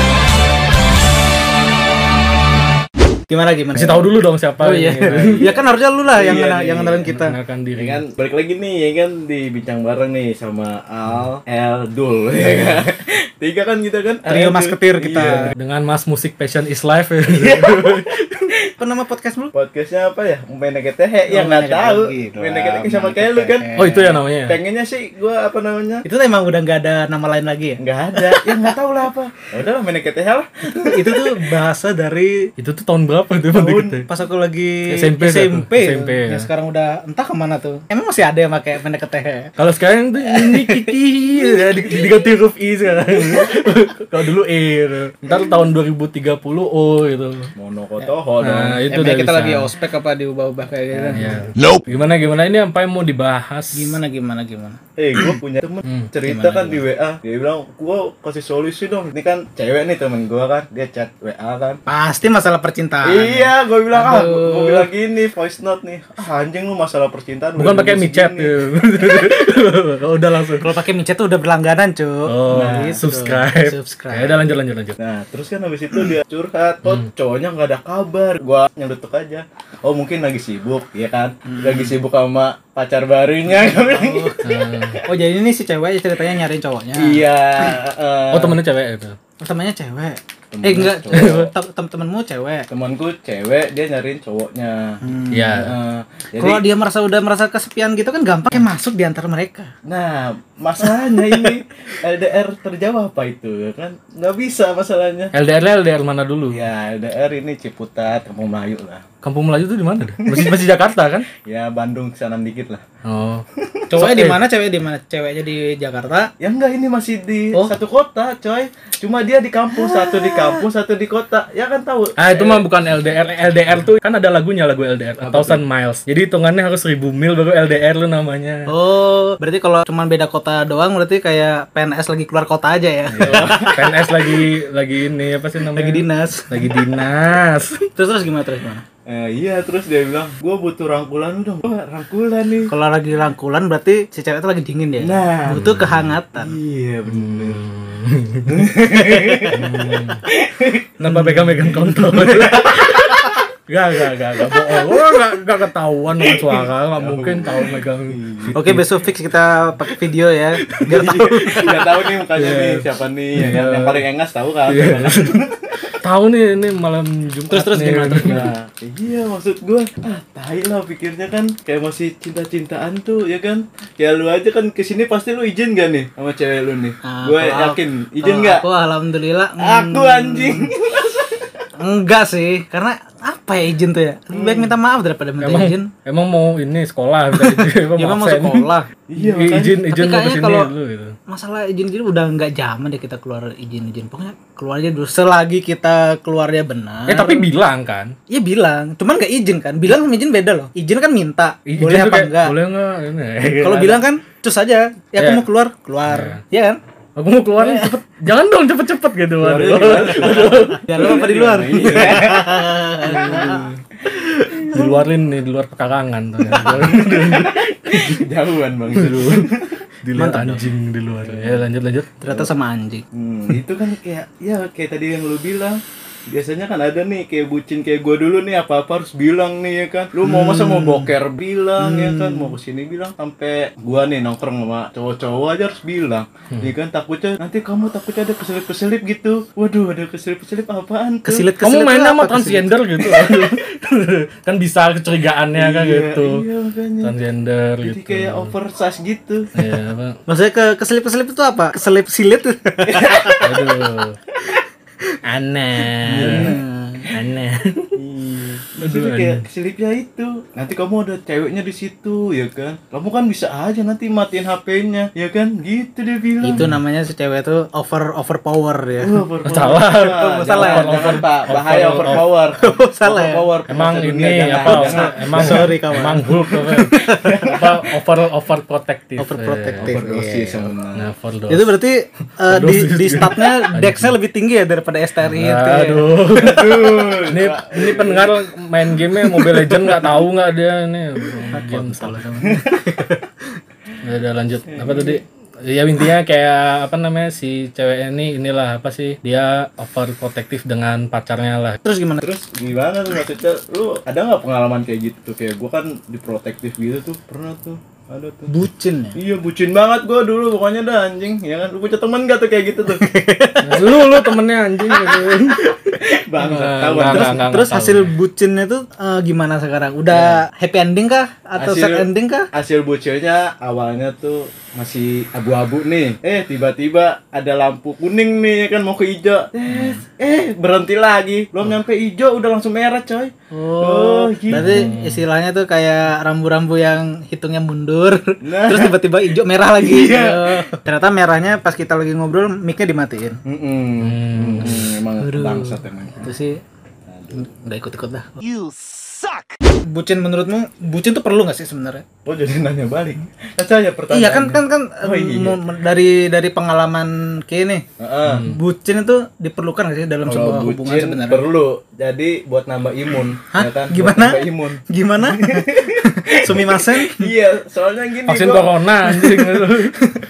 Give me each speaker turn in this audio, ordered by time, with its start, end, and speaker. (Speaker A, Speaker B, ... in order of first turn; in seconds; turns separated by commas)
Speaker A: 3.3-4.1, Speaker B: 3.7-5.5, Speaker A: 4.6-7.3, Speaker C: 5.0-7.0, Speaker B: 7.0-8.0, Speaker C: 7.8-15.5, Speaker A: 14.2-15.5, Speaker B: 15.2-18.5, Speaker C: 17.3-18.0, Speaker A: 18.8-19.5, Speaker C: 19.5-23.7, Speaker A: 21.3-24.1, Speaker B: 23.8-24.6, Speaker C: 24.4-26.1, Speaker A: 26.0-28.7, Speaker C: 27.8-31.3, Speaker A: 30.8-32.5, Speaker B: 32.6-34.0, Speaker C: 33.5-34.0, Speaker A: 33.9-39.5, Speaker B: 34.9-36.5, Speaker B: 39.6-47.5, Speaker A: 40.3-42.1, Speaker C: 47.5-48.8, Speaker B: 48.4-49.7, Speaker A: 48.9-51.4, Speaker C: 50.9-51.3, Speaker B: 51.1-54.0, Speaker A: 53.7-54.8, Speaker C: 55.0-61.8, Speaker B: 55.8-56.1, Speaker A: 56.2-56.8, Speaker A: 61.9-64.9, Speaker C: 63.0-68.5, Speaker B: 67.6-70.8, Speaker A: 70.6-74.5, Speaker B: 72.3-75.0, Speaker C: 72.5-73.0, Speaker C: 75.0-84.3, Speaker A: 81.5-81.9, Speaker A: 83.8-84.4, Speaker B: 84.4-85.0, Speaker A: 85.0-87.7, Speaker C: 87.0-88.6, Speaker B: 88.3-89.2, Speaker A: 89.4-92.7, Speaker C: 90.5-91.4, Speaker B: 91.1-91.5, Speaker C: 92.7-95.0, Speaker A: 95.0-95.6, Speaker B: 95.3-95.7, Speaker C: 95.6-96.6, Speaker A: 96.4-99.7, Speaker C: 99.8-105.3, Speaker B: 105.3-106.6, Speaker C: 106.5-109.0, Speaker B: 109.2-111.3, Speaker C: 110.2-110.5, Speaker C: 111.3-112.8, Speaker B: 113.0-114.4, Speaker A: 113.9-116.3, Speaker C: 116.4-122.6, Speaker A: 119.7-120.6, Speaker B: 122.2-128.7, Speaker C: 125.2-125.6, Speaker A: 128.7-134.4, Speaker C: 133.1-133.8, Speaker B: 133.2-137.8, Speaker A: 135.7-136.8, Speaker A: 137.9-138.8, Speaker C: 139.1-142.7, Speaker A: 142.7-146.6, Speaker C: 145.0-145.8, Speaker B: 145.5-146.1, Speaker C: 146.3-147.6, Speaker B: 147.1-148.6, Speaker C: 148.4-153.3, Speaker A: 148.8-149.9, Speaker B: 149.5-150.2, Speaker A: 151.0-151.5, Speaker B: 151.0-158.9, Speaker C: 156.2-158.5, Speaker A: 158.5-161.8, Speaker B: 160.7-161.0, Speaker C: 160.9-165.9, Speaker B: 162.3-164.0, Speaker B: 164.7-165.3, Speaker B: 166.0-168.4, Speaker A: 167.5-168.4, Speaker C: 168.1-178.6, Speaker A: 177.0-180.7, Speaker C: 179.6-181.7, Speaker A: 181.8-185.9, Speaker C: 184.3-184.7, Speaker B: 185.4-188.7, Speaker A: 187.3-188.9, Speaker C: 189.1-189.8, Speaker B: 189.2-191.1, Speaker A: 189.9-190.7, Speaker A: 191.3-197.4, Speaker B: 197.1-198.1, Speaker A: 198.3-202.5, Speaker B: 201.7-204.0, Speaker A: 203.6-206.8, Speaker B: 206.1-206.4, Speaker B: 207.2-210.8, Speaker C: 209.4-215.0, Speaker A: 210.8-213.7, Speaker B: 213.1-213.5, Speaker B: 214.7-218.2, Speaker C: 216.4-219.8, Speaker B: 218.9-219.5, Speaker B: 220.0-222.2, Speaker A: 220.1-220.6, Speaker C: 221.2-221.6, Speaker A: 222.2-223.0, Speaker C: 223.1-241.5, Speaker A: 230.2-231.1, Speaker A: 231.8-232.5, Speaker A: 241.2-242.8, Speaker B: 241.6-246.4, Speaker C: 245.5-247.1, Speaker B: 247.0-248.5, Speaker C: 247.8-249.5, Speaker B: 249.5-250.2, Speaker A: 250.3-253.6, Speaker C: 252.8-253.4, Speaker B: 253.4-254.2, Speaker B: 255.2-256.6, Speaker A: 256.0-257.1, Speaker C: 256.1-256.6, Speaker B: 257.1-257.9, Speaker C: 257.9-266.6, Speaker B: 258.8-259.4, Speaker A: 266.4-269.2, Speaker C: 269.0-277.8, Speaker B: 269.4-272.3, Speaker A: 270.1-271.2, Speaker A: 272.6-273.4, Speaker B: 273.7-279.9, Speaker A: 274.6-277.6, Speaker A: 279.2-280.7, Speaker C: 279.8-281.1, Speaker B: 280.9-281.8, Speaker A: 281.5-286.1, Speaker B: 282.5-284.1, Speaker B: 285.2-292.6, Speaker C: 286.3-288.4, Speaker C: 289.3-290.1, Speaker A: 291.5-293.2, Speaker B: 294.0-301.8, Speaker C: 294.7-295.2, Speaker A: 301.8-302.2, Speaker C: 302.2-308.5, Speaker A: 308.5-309.2, Speaker C: 309.1-313.1, Speaker A: 312.9-314.1, Speaker B: 313.6-315.7, Speaker C: 315.9-317.5, Speaker B: 316.4-318.1, Speaker A: 317.1-322.5, Speaker C: 320.1-320.4, Speaker C: 321.6-334.9, Speaker A: 329.7-330.0, Speaker A: 333.5-343.4, Speaker B: 334.5-335.2, Speaker C: 338.4-339.0, Speaker C: 339.8-340.6, Speaker C: 343.4-346.3, Speaker B: 344.0-344.9, Speaker A: 345.2-346.6, Speaker C: 347.1-347.4, Speaker A: 347.3-348.9, Speaker A: 349.9-352.0, Speaker C: 352.2-355.6, Speaker A: 354.1-357.8, Speaker C: 358.0-358.5, Speaker B: 358.2-358.6, Speaker A: 358.4-361.4, Speaker C: 360.2-368.7, Speaker A: 363.5-367.3, Speaker B: 368.3-370.0, Speaker A: 369.2-370.1